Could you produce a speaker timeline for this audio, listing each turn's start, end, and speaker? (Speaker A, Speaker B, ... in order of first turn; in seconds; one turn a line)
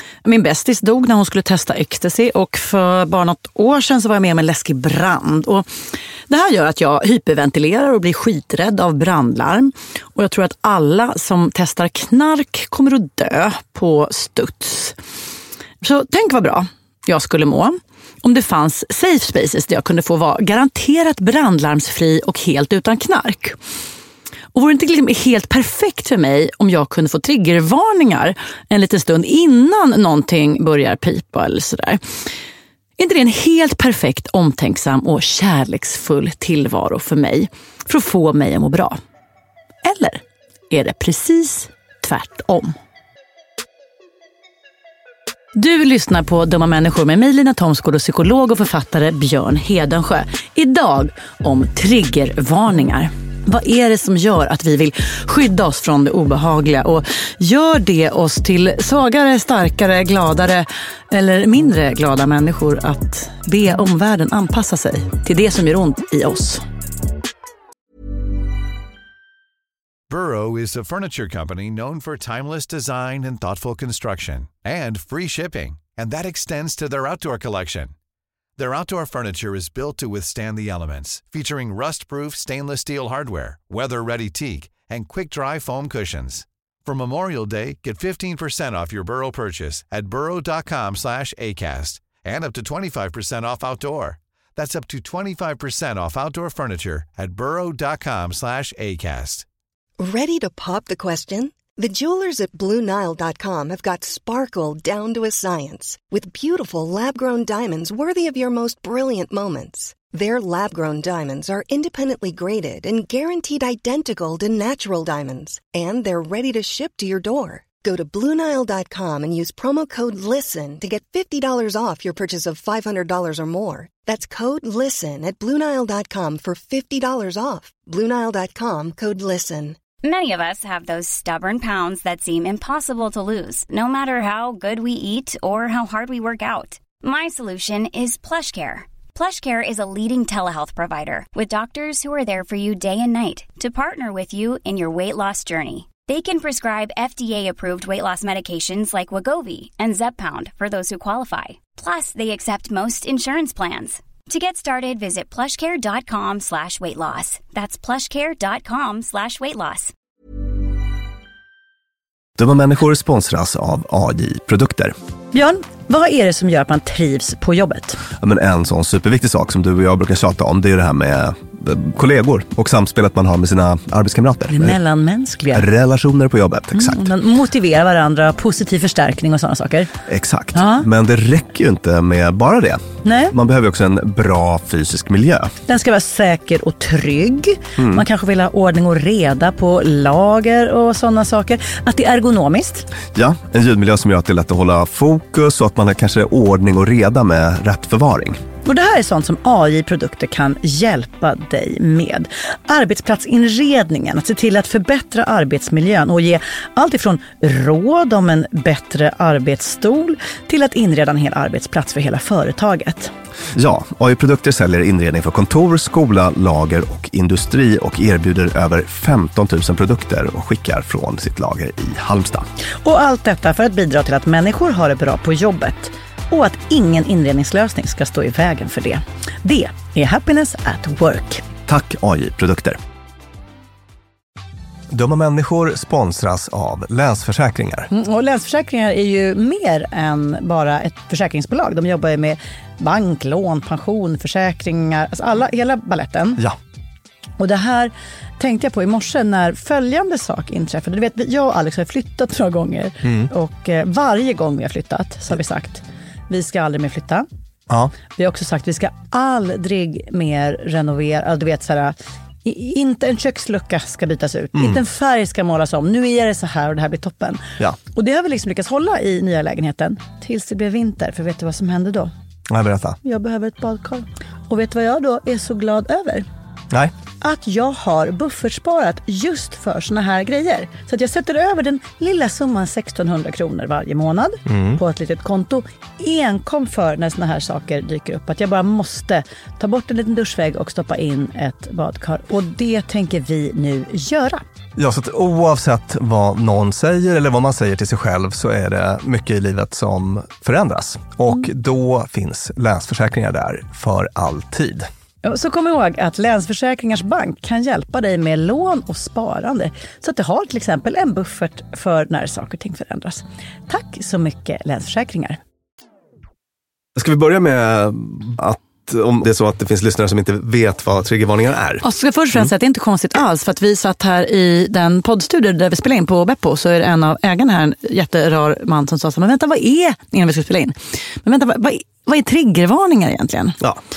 Speaker A: 0.2-5.7
Speaker A: 6.3-15.0
Speaker A: 15.8-23.6
Speaker A: 24.5-32.0
Speaker A: 33.0-39.0
Speaker A: 39.8-42.8
Speaker A: 45.5-66.6
Speaker B: 70.1-77.9
Speaker B: 78.6-99.4
Speaker C: 100.0-129.8
Speaker D: 130.0-159.9
Speaker E: 162.4-164.9
Speaker A: 165.3-168.0
Speaker E: 168.2-174.8
Speaker A: 174.5-175.7
Speaker E: 175.5-177.1
Speaker A: 176.7-179.9
Speaker E: 180.1-185.5
Speaker A: 180.5-180.8
Speaker A: 183.0-183.3
Speaker A: 185.7-192.9
Speaker E: 187.8-188.0
Speaker E: 193.1-198.4
Speaker A: 198.6-213.1
Speaker E: 213.5-222.5
Speaker A: 222.8-231.4
Speaker E: 231.7-232.8
Speaker E: 234.9-237.9
Speaker A: 237.9-246.4
Speaker A: 247.4-257.2
Speaker E: 253.0-253.3
Speaker E: 257.7-257.9
Speaker A: 258.1-267.4
Speaker A: 267.9-272.1
Speaker E: 272.5-273.0
Speaker A: 273.0-276.2
Speaker A: 277.2-294.4
Speaker E: 284.4-284.8
Speaker E: 294.8-304.9
Speaker A: 305.2-315.4
Speaker E: 316.9-321.8
Speaker A: 321.8-333.6